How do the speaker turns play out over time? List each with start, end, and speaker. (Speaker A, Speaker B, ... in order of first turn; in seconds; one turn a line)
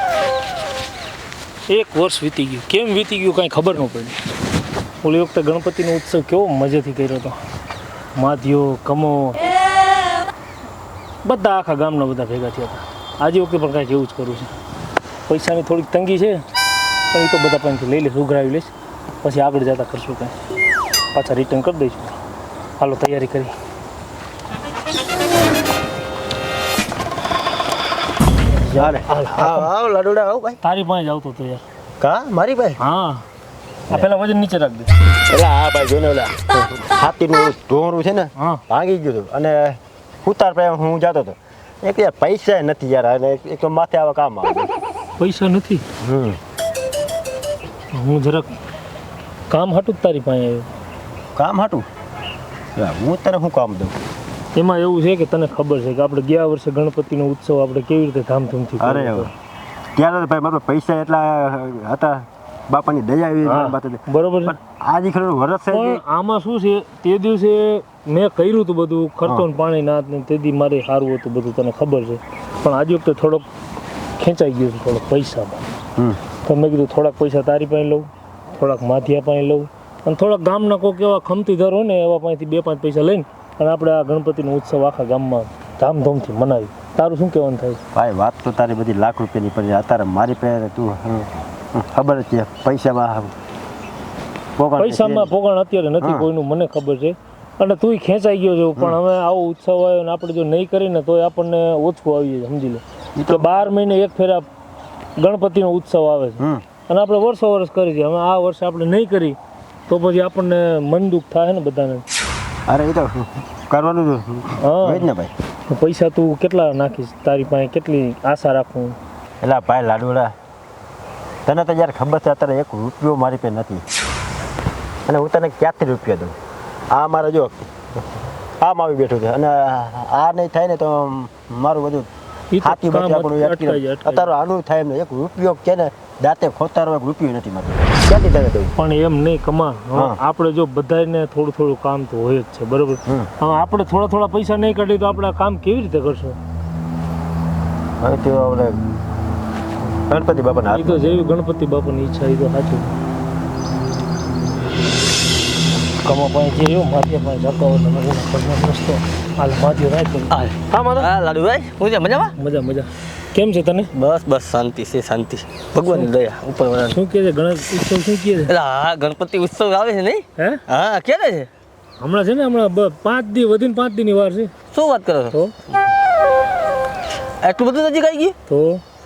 Speaker A: 1.7-4.2
Speaker A: 5.0-7.4
Speaker A: 8.2-9.5
Speaker A: 11.2-14.6
Speaker A: 15.3-16.4
Speaker A: 17.1-20.4
Speaker A: 21.1-22.2
Speaker A: 22.8-23.5
Speaker A: 28.5-29.7
Speaker B: 28.8-30.6
Speaker A: 30.6-31.6
Speaker B: 32.0-32.8
Speaker A: 32.8-33.2
Speaker A: 33.9-34.9
Speaker B: 35.3-44.7
Speaker A: 38.4-38.6
Speaker A: 45.2-45.8
Speaker B: 46.0-46.4
Speaker A: 47.9-48.5
Speaker A: 49.5-50.7
Speaker B: 51.4-51.9
Speaker B: 52.8-54.0
Speaker A: 54.5-59.3
Speaker B: 58.8-59.3
Speaker B: 60.0-66.0
Speaker A: 63.4-64.5
Speaker A: 65.7-73.5
Speaker A: 74.2-75.6
Speaker A: 76.5-87.8
Speaker B: 87.9-93.3
Speaker B: 94.6-95.3
Speaker A: 94.8-104.5
Speaker B: 96.0-96.3
Speaker B: 103.2-103.5
Speaker A: 105.2-109.4
Speaker A: 109.9-112.0
Speaker B: 112.7-115.3
Speaker A: 114.6-115.1
Speaker A: 115.7-119.0
Speaker B: 119.4-120.3
Speaker B: 121.5-123.8
Speaker B: 125.1-126.3
Speaker B: 126.9-127.7
Speaker B: 128.6-132.1
Speaker A: 132.5-134.3
Speaker B: 132.6-138.7
Speaker A: 138.8-146.4
Speaker B: 148.0-148.8
Speaker B: 150.1-151.2
Speaker A: 150.7-153.0
Speaker A: 156.0-161.1
Speaker C: 160.3-162.3
Speaker A: 162.4-163.9
Speaker C: 163.9-167.0
Speaker A: 166.9-168.5
Speaker C: 168.5-171.5
Speaker A: 172.0-174.5
Speaker C: 174.7-175.8
Speaker C: 177.4-178.3
Speaker A: 178.5-178.8